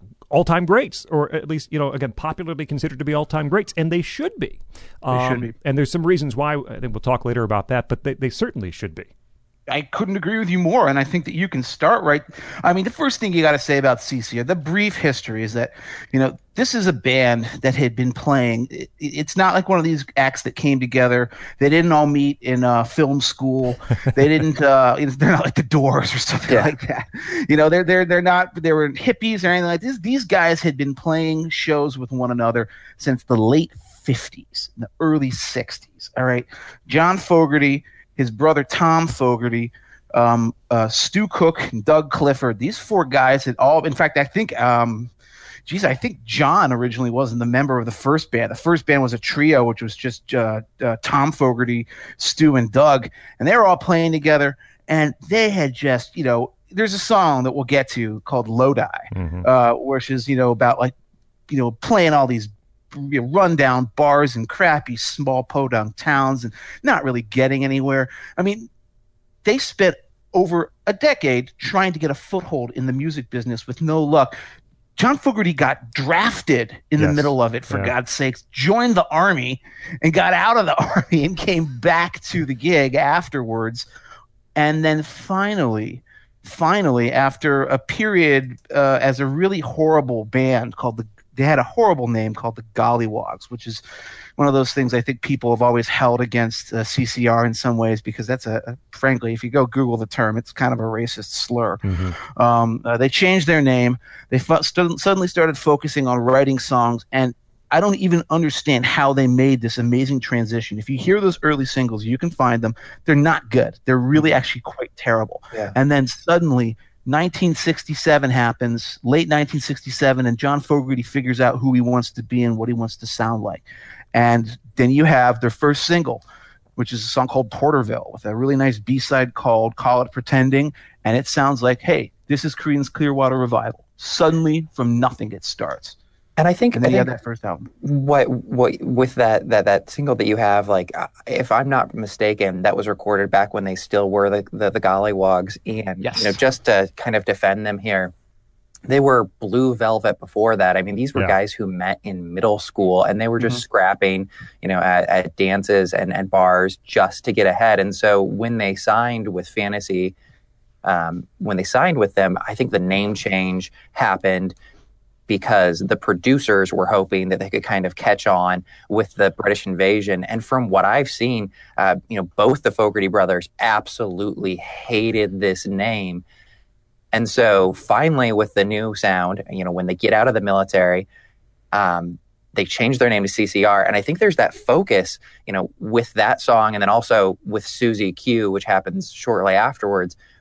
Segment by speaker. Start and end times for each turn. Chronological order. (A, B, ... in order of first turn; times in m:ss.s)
0:00.3-0:09.1 A
0:05.1-0:05.5 B
0:09.7-0:45.1 B
0:26.5-0:26.7 C
0:45.7-1:00.9 B
0:59.1-0:59.5 A
1:01.5-1:08.7 B
1:09.4-1:14.3 B
1:15.0-1:23.8 B
1:17.0-1:17.9 A
1:24.6-1:33.8 B
1:34.4-2:06.2 B
1:41.8-1:42.2 A
2:06.8-2:16.0 B
2:16.4-2:17.1 C
2:16.7-2:17.6 B
2:17.8-2:28.1 C
2:26.0-2:26.4 B
2:28.9-2:40.1 C
2:40.8-2:44.6 C
2:45.3-2:56.2 C
2:57.1-3:01.1 C
3:01.7-3:10.2 C